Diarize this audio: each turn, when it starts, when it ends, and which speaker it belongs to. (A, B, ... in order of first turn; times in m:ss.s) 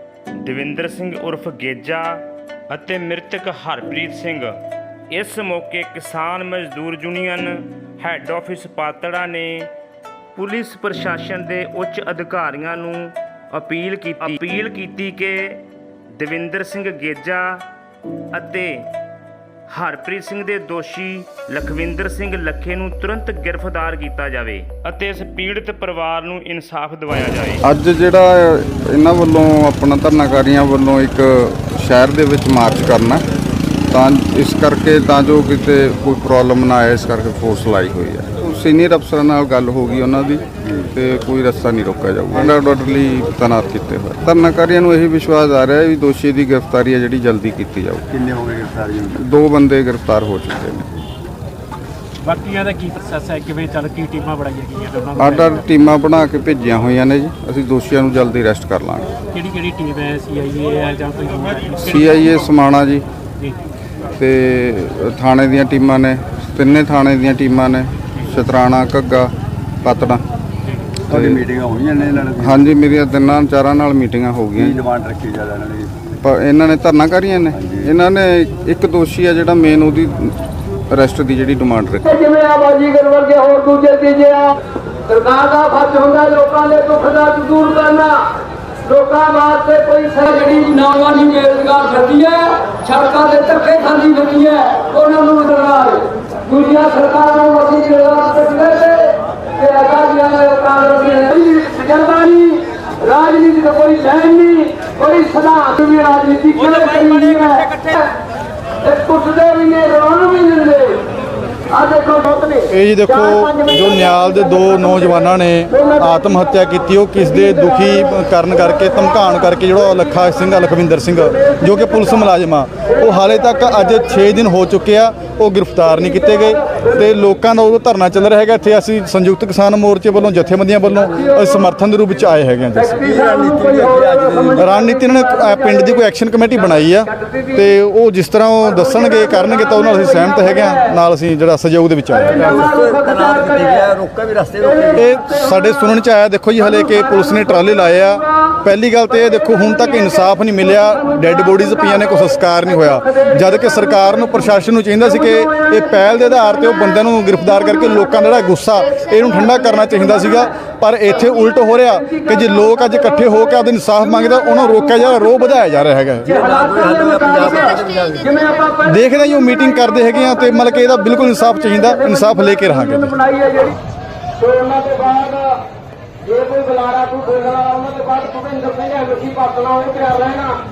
0:00.4-0:04.5 A
0:05.1-0:09.7 A
0:10.4-0:15.6 A
0:16.2-0:17.6 A
0:18.3-0:18.9 A
0:19.7-0:27.6 A
0:27.6-0:33.2 B
0:33.9-0:48.0 B
0:40.6-0:40.9 C
0:48.1-0:49.2 C
0:49.2-0:50.9 B
0:52.2-0:55.6 D
0:55.2-0:59.2 B
0:59.3-1:02.3 D
1:01.8-1:03.0 B
1:04.2-1:09.3 B
1:09.8-1:10.2 B
1:11.1-1:12.8 C
1:11.1-1:11.4 B
1:12.4-1:14.8 B
1:14.6-1:16.0 C
1:16.2-1:20.3 B
1:17.5-1:17.9 C
1:20.9-1:22.0 B
1:22.4-1:24.2 E
1:25.2-1:28.0 E
1:29.0-1:31.4 E
1:33.0-1:34.4 E
1:35.0-1:35.8 E
1:36.6-1:38.8 E
1:39.8-1:42.2 E
1:43.3-1:44.4 E
1:45.4-1:45.7 E
1:46.2-1:46.5 E
1:49.7-1:50.3 E
1:52.7-2:13.1 F
2:13.0-2:14.7 C
2:14.6-2:22.6 F
2:22.4-2:25.0 C
2:24.9-2:46.4 F
2:46.2-2:48.6 C
2:48.8-2:53.4 F